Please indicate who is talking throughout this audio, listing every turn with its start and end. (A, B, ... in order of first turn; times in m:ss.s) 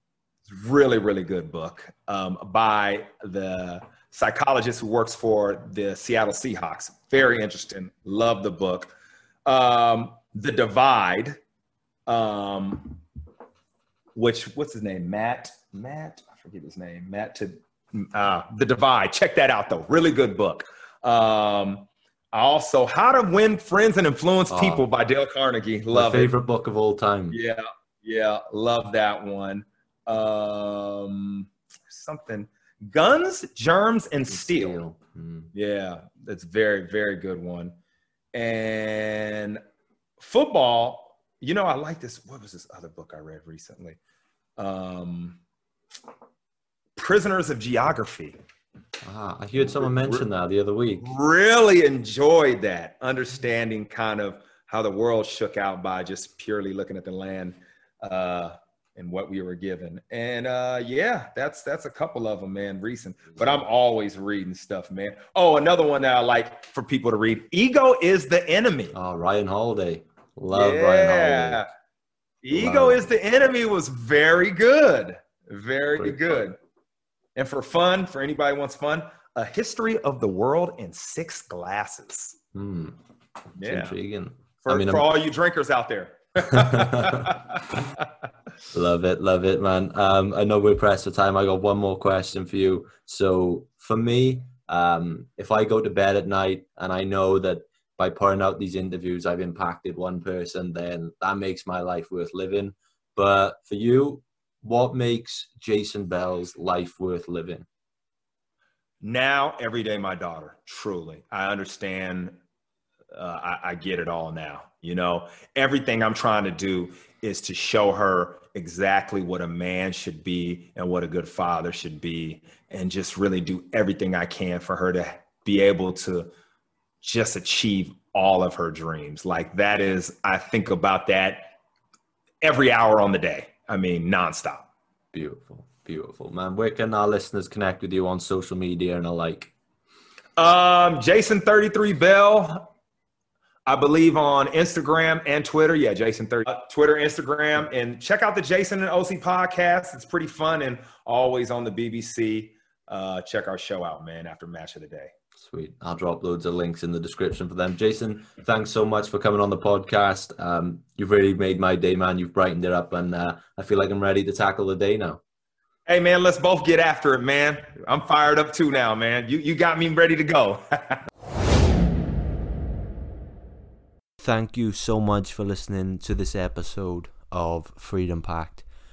0:00.5-0:08.9 A
0:09.4-0:11.4 A
0:12.1-0:13.0 A
0:14.1-0:26.3 A
0:24.5-0:24.8 B
0:25.9-0:27.4 B
0:27.3-0:34.8 A
0:34.3-0:35.5 B
0:35.5-0:37.7 A
0:38.3-0:39.6 A
0:40.2-0:44.0 A
0:44.6-0:45.4 A
0:47.0-0:48.4 A
0:49.0-0:51.1 B
0:49.8-0:50.2 A
0:51.0-1:08.9 A
1:08.9-1:11.6 B
1:10.5-1:11.7 A
1:12.4-1:16.6 A
1:12.5-1:13.1 B
1:16.0-1:16.4 B
1:17.4-1:22.4 A
1:22.5-1:23.0 B
1:23.6-1:24.0 A
1:23.6-1:25.1 B
1:24.6-1:27.8 A
1:26.5-1:27.3 B
1:28.7-1:47.6 B
1:49.0-1:52.3 A
1:53.1-2:06.3 A
2:07.0-2:11.5 A
2:12.4-2:14.7 A
2:15.1-2:19.5 B
2:20.4-2:22.7 A
2:23.7-2:35.1 A
2:35.4-2:45.2 B
2:45.9-2:51.0 A
2:54.2-2:58.6 B